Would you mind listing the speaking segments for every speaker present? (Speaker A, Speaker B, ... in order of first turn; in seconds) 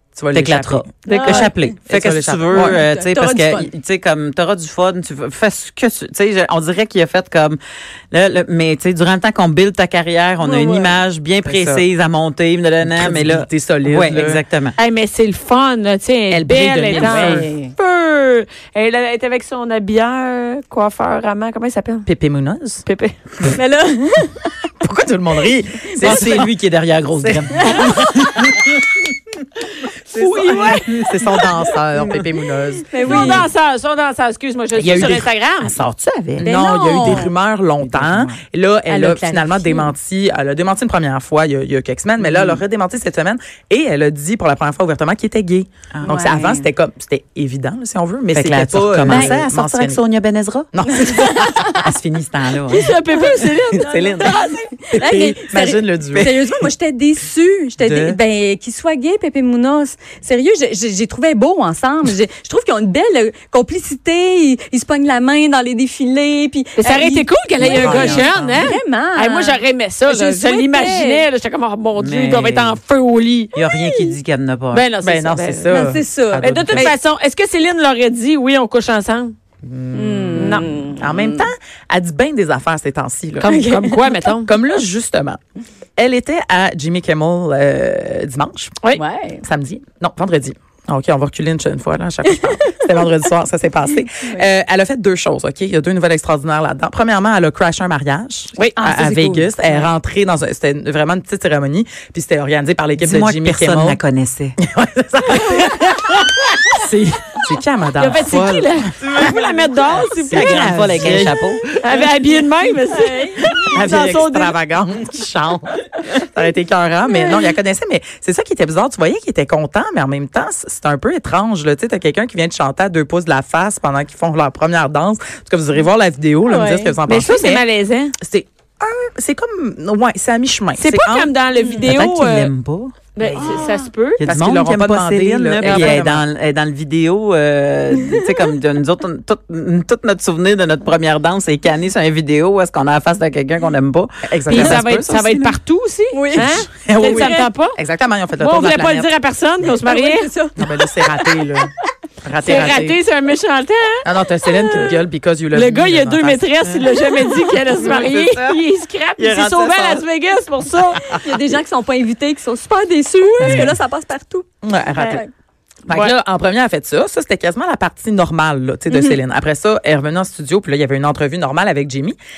Speaker A: 0.2-2.8, 11.4-11.8, 12.8-14.4, 16.3-17.5, 22.1-22.9, 24.8-26.5, 27.2-28.1, 30.1-33.5, 34.8-35.3, 36.4-50.0, 50.7-51.8, 54.9-56.7, 57.8-58.2, 67.6-68.7, 75.0-76.9, 79.6-83.5, 84.5-85.4, 86.0-88.8, 89.4-104.0, 104.6-109.3, 110.3-112.1, 113.4-127.6, 128.2-131.3, 134.2-136.2, 144.2-145.2, 146.8-149.1, 150.6-151.7, 152.2-153.0, 154.0-156.4, 163.4-163.8, 164.6-165.2, 165.9-172.2
Speaker B: 0.3-7.6, 8.1-14.8, 16.9-17.7, 26.0-28.7, 31.9-32.2, 35.6-37.2, 37.8-38.4, 42.2-42.6, 45.9-46.6, 48.3-50.7, 51.6-54.5, 71.9-72.8, 73.5-74.8, 103.0-104.6, 110.2-111.6, 131.8-133.5, 134.2-145.5, 157.8-158.6, 159.2-160.1
Speaker C: 1.1-1.6, 2.5-3.7, 10.4-11.0, 23.5-24.6, 26.0-26.4, 27.6-28.1, 32.9-33.5, 36.4-37.3, 38.9-39.9, 46.0-46.5, 49.1-49.4, 51.0-51.7, 54.0-71.2, 75.7-76.9, 79.9-81.4, 83.5-84.2, 88.9-89.4, 92.3-92.9, 94.2-94.4, 98.6-99.9, 112.9-113.5, 126.5-127.0, 133.4-133.7, 146.1-147.4, 149.8-151.4, 161.1-164.5, 165.0-165.3, 168.9-169.2
Speaker D: 1.1-1.4, 14.8-22.1, 22.9-23.1, 30.1-30.9, 33.0-35.8, 52.7-54.7, 66.8-73.5, 74.7-75.8, 76.4-79.3, 80.4-80.9, 83.4-84.5, 108.0-111.1, 111.8-114.6, 127.1-128.1, 130.8-132.5, 133.2-134.2, 135.6-136.0, 144.5-147.8, 148.4-150.3, 152.4-154.9, 155.5-161.1